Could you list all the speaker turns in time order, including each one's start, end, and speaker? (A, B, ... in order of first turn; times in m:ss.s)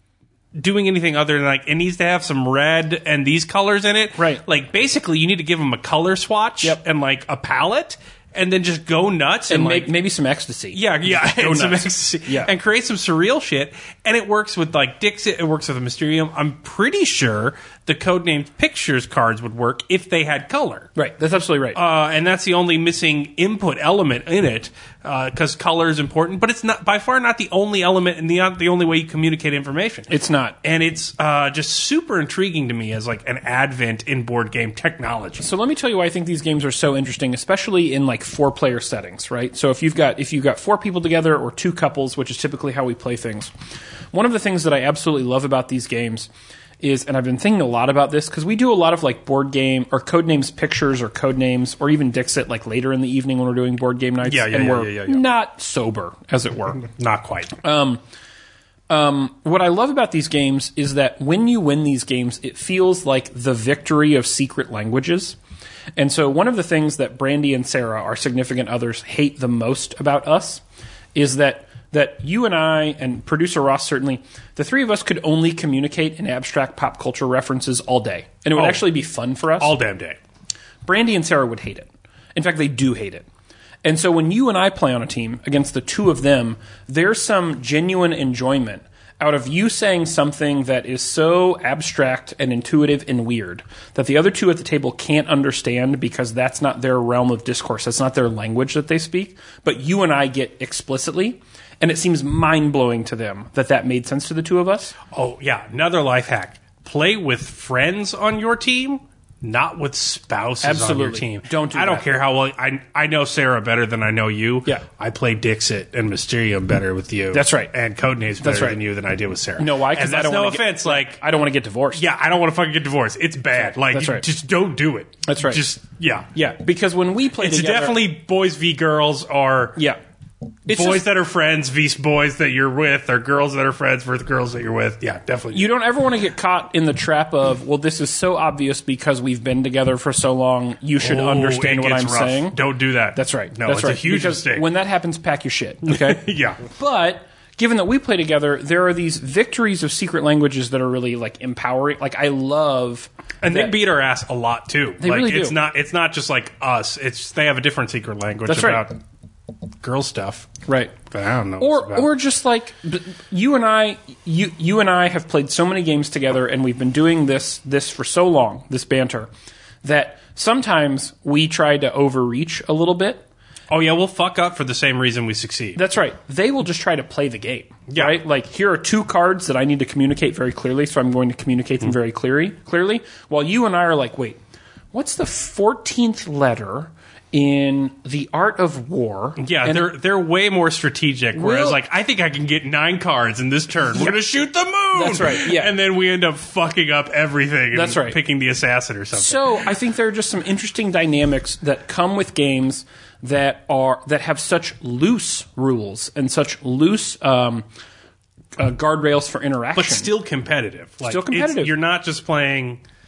0:00.6-0:09.9 A
0:04.2-0:04.4 B
0:09.5-0:12.5 B
0:10.7-0:20.9 A
0:21.0-0:21.8 B
0:21.7-0:30.1 A
0:30.1-0:30.6 B
0:30.6-0:35.4 A
0:35.4-0:43.5 B
0:44.1-0:56.8 B
0:54.2-0:55.2 A
0:56.8-0:57.5 A
0:57.6-0:58.0 B
0:58.9-1:05.4 B
1:06.0-1:10.6 B
1:11.1-1:19.7 B
1:18.5-1:18.8 A
1:19.6-1:20.2 A
1:20.8-1:23.2 B
1:23.8-1:44.9 B
1:45.1-2:01.2 A
1:50.6-1:52.1 B
1:57.3-1:57.7 B
1:58.4-1:58.8 B
1:59.6-2:02.0 B
2:01.9-2:06.3 A
2:03.9-2:04.2 B
2:05.2-2:05.6 B
2:06.3-2:08.0 B
2:07.4-2:09.8 A
2:10.6-2:11.0 B
2:10.7-2:15.7 A
2:15.5-2:22.6 B
2:21.0-2:24.6 A
2:23.1-2:33.7 B
2:25.8-2:26.6 A
2:33.4-2:39.0 A
2:35.0-2:35.6 B
2:38.4-2:38.8 B
2:39.8-2:42.1 A
2:40.7-2:40.9 B
2:41.6-2:49.3 B
2:49.8-2:53.2 B
2:53.7-2:55.8 A
2:55.8-3:04.4 B
2:57.9-2:58.2 A
3:04.9-3:09.9 B
3:09.4-3:19.5 A
3:11.3-3:11.8 B
3:13.9-3:14.2 B
3:14.9-3:15.7 B
3:17.7-3:18.2 B
3:19.1-3:27.6 B
3:28.6-3:30.1 B
3:29.7-3:32.8 A
3:31.1-3:31.7 B